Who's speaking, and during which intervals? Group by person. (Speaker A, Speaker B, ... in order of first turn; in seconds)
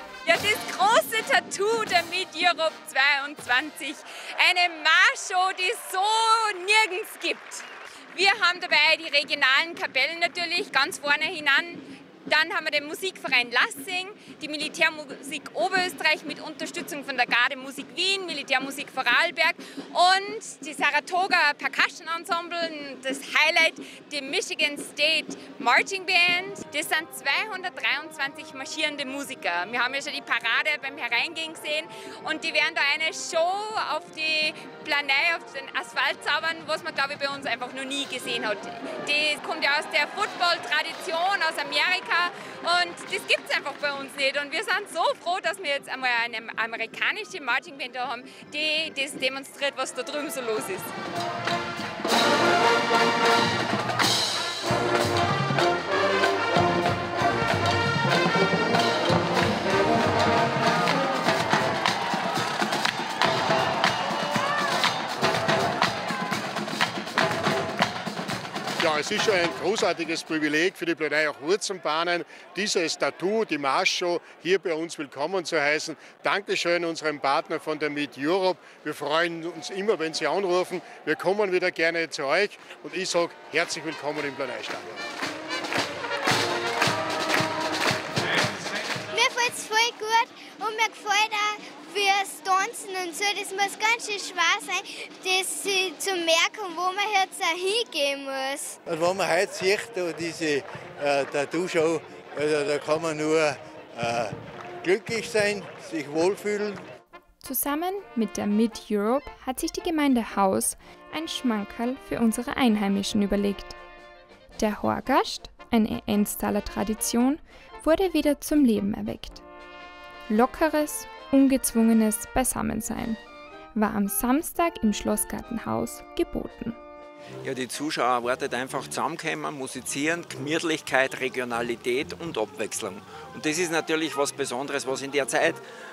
Speaker A: 0.3-50.9
Speaker B: 68.8-85.0
Speaker C: 89.1-98.8
Speaker D: 98.9-104.3, 104.8-106.8
Speaker E: 107.4-113.8, 114.6-119.4, 120.3-123.2, 123.8-126.8
Speaker F: 127.4-135.6